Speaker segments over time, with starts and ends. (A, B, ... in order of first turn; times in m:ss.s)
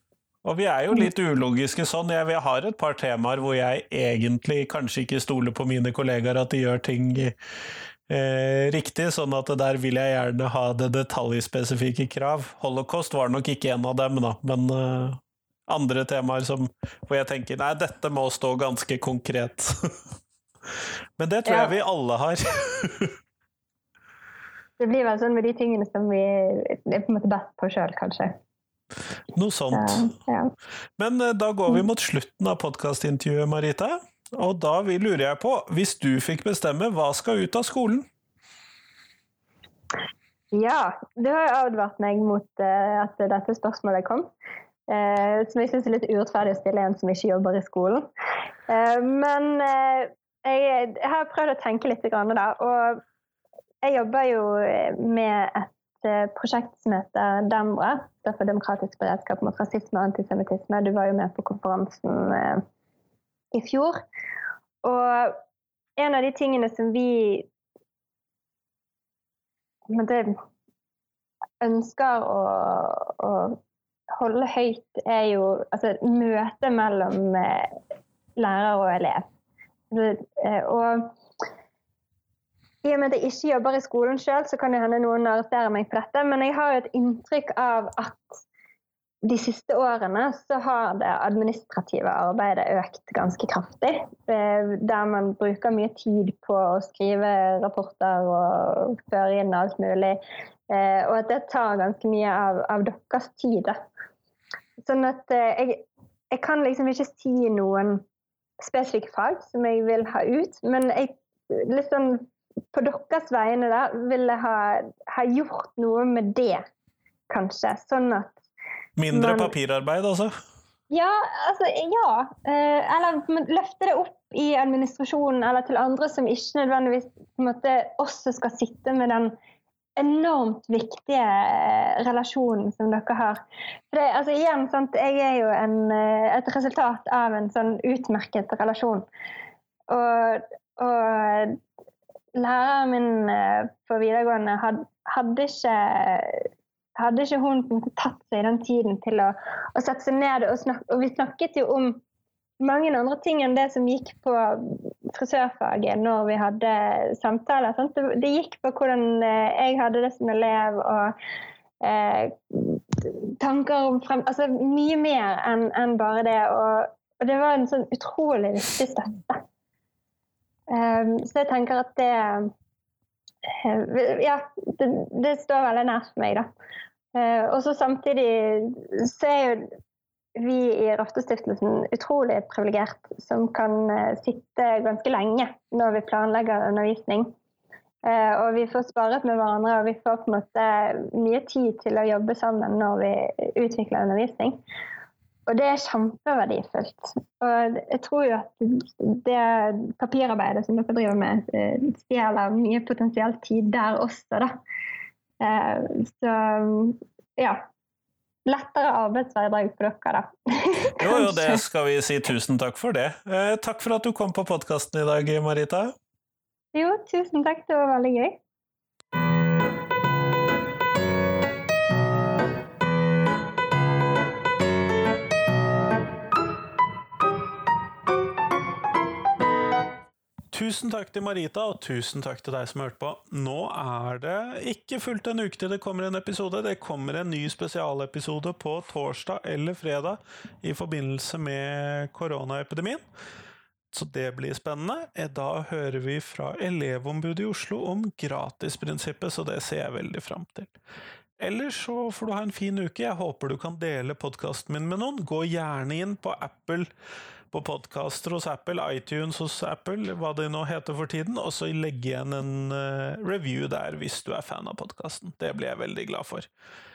0:00.4-0:07.3 A
0:08.1-0:19.7 A
0:21.2-0:23.2 A
0:21.4-0:21.7 B
0:24.8-0:28.3 B
0:29.3-0:30.1 A
0:29.7-0:30.5 B
0:31.0-0:38.1 A
0:40.5-0:44.3 B
0:44.9-0:48.1 B
0:48.7-0:53.0 B
0:53.8-1:02.6 B
1:03.5-1:04.0 B
1:04.8-1:05.4 B
1:06.0-1:07.5 B
1:09.9-1:10.4 B
1:11.6-1:13.6 B
1:14.1-1:17.7 B
1:18.4-1:19.2 B
1:19.9-1:21.2 B
1:22.8-1:28.4 B
1:29.2-1:40.2 B
1:40.7-1:43.8 B
1:44.8-1:48.0 B
1:48.6-1:56.6 B
1:57.3-1:58.4 B
1:59.0-2:00.3 A
1:59.1-1:59.5 B
2:00.9-2:09.3 B
2:10.0-2:13.4 B
2:13.9-2:19.0 B
2:19.9-2:21.6 B
2:22.4-2:26.4 B
2:27.0-2:32.0 B
2:32.6-2:41.1 B
2:41.8-2:49.4 B
2:50.7-2:52.5 B
2:53.5-2:56.5 B
2:57.1-2:59.7 B
3:00.4-3:07.3 B
3:08.0-3:14.6 B
3:15.5-3:24.5 B
3:25.4-3:27.6 B
3:28.4-3:31.6 B
3:31.0-3:35.9 A
3:36.7-3:38.4 B
3:50.5-4:03.0 A
4:03.9-4:10.7 A
4:11.4-4:16.9 A
4:17.5-4:26.5 A